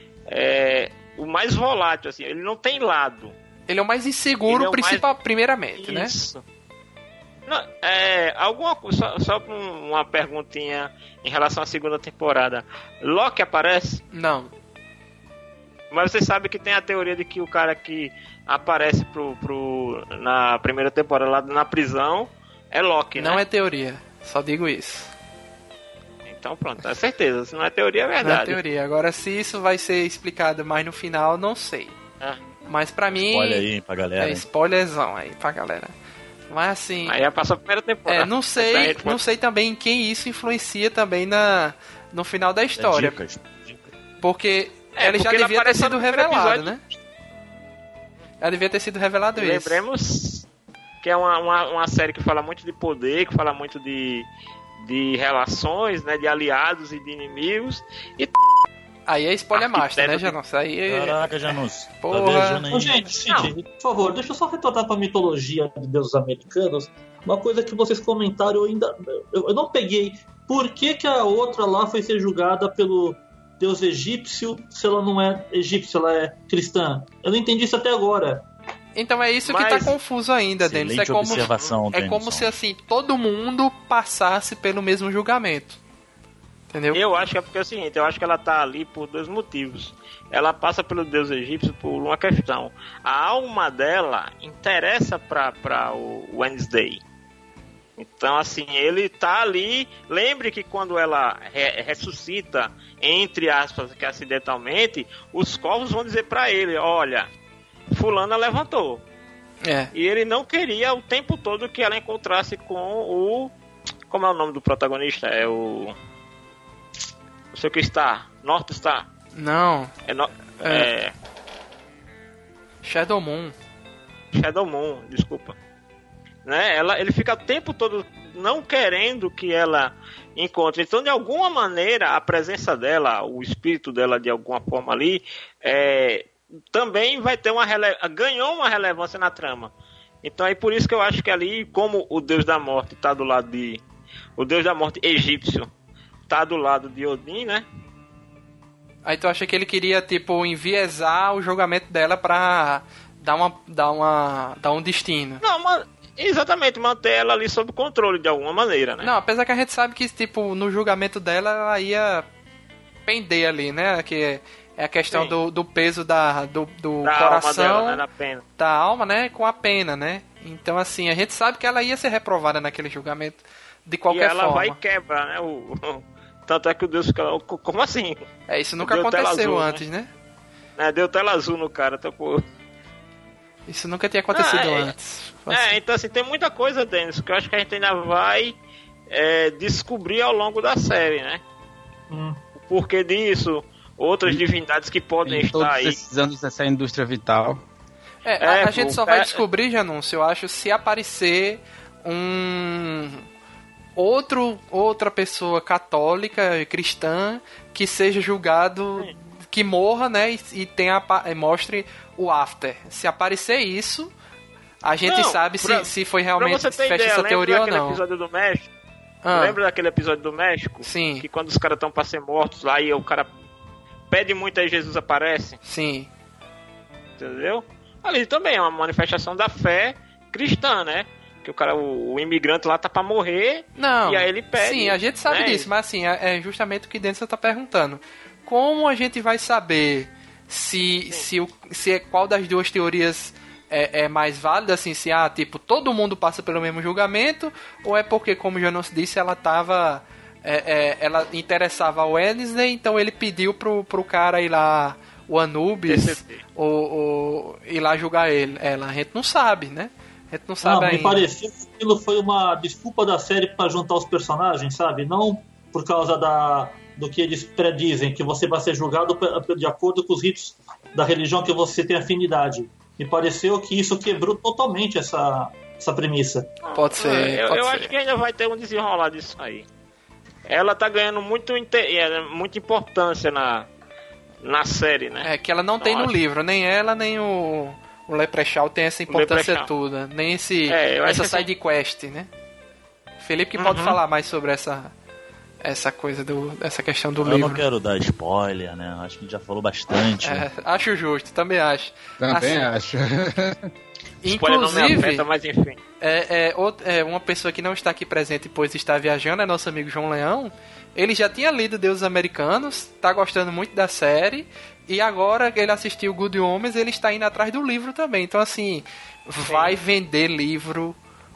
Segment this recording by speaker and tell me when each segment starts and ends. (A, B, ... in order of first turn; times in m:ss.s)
0:00.3-0:03.3 A
0:03.7-0:06.1 B
0:04.5-0:05.2 A
0:05.8-0:06.4 A
0:07.5-0:14.0 A
0:14.1-0:14.5 B
0:15.9-0:23.4 A
0:23.2-0:25.1 B
0:26.3-0:28.6 A
0:28.2-0:32.0 B
0:32.7-0:33.7 B
0:33.2-0:34.4 C
0:34.2-0:35.9 B
0:36.5-0:37.2 B
0:37.1-0:39.2 A
0:38.1-0:43.2 B
0:42.8-0:43.9 C
0:44.2-0:46.8 B
0:45.0-0:46.8 A
0:48.4-0:49.8 B
0:49.4-0:50.5 A
0:51.0-0:54.3 A
0:54.8-0:58.4 A
0:59.1-1:01.3 B
0:59.5-1:00.4 A
1:00.9-1:03.1 C
1:02.0-1:02.6 B
1:02.7-1:18.5 D
1:03.3-1:03.5 A
1:19.0-1:25.8 B
1:19.5-1:20.0 A
1:20.6-1:22.5 C
1:21.3-1:21.8 A
1:26.7-1:27.0 B
1:26.9-1:37.0 A
1:38.0-1:47.3 A
1:47.9-1:49.0 A
1:49.6-1:49.9 B
1:49.9-1:53.5 A
1:54.1-1:56.0 A
1:57.5-1:59.1 A
1:59.4-1:59.9 B
2:00.1-2:01.1 A
2:00.6-2:00.9 B
2:02.8-2:03.5 B
2:04.3-2:05.6 A
2:06.4-2:19.7 A
2:20.2-2:23.8 A
2:24.4-2:25.7 A
2:26.3-2:27.6 A
2:29.0-2:35.4 B
2:35.4-2:39.1 A
2:39.0-2:42.3 B
2:43.1-2:48.0 B
2:45.1-2:45.4 A
2:47.0-2:48.4 A
2:48.6-2:54.8 B
2:54.1-2:58.2 A
2:58.5-3:00.1 B
2:58.8-2:59.8 A
3:00.8-3:02.4 A
3:03.7-3:05.8 B
3:04.3-3:04.9 A
3:05.5-3:08.6 A
3:09.1-3:11.4 A
3:12.1-3:12.4 D
3:12.6-3:16.0 A
3:15.2-3:17.6 E
3:18.2-3:23.2 B
3:18.4-3:19.4 A
3:24.0-3:34.1 B
3:34.8-3:38.0 B
3:35.1-3:38.7 A
3:39.2-3:39.6 B
3:39.3-3:43.3 A
3:40.8-3:41.2 B
3:44.1-3:45.6 A
3:45.6-3:46.1 B
3:47.2-3:55.7 A
3:53.8-4:21.2 B
4:15.9-4:16.4 A
4:20.6-4:36.5 D
4:36.6-4:39.7 A
4:36.7-4:37.9 B
4:40.5-4:43.7 A
4:44.4-4:45.3 A
4:45.2-4:52.3 B
4:45.8-4:46.1 A
4:49.1-4:49.7 A
4:50.7-4:51.5 A
4:53.2-4:54.9 B
4:53.6-4:54.0 A
4:55.6-4:57.6 B
4:57.2-5:00.5 C
5:00.2-5:02.7 B
5:02.2-5:03.7 E
5:04.2-5:05.2 B
5:04.3-5:05.8 A
5:06.0-5:21.0 B
5:19.5-5:19.8 A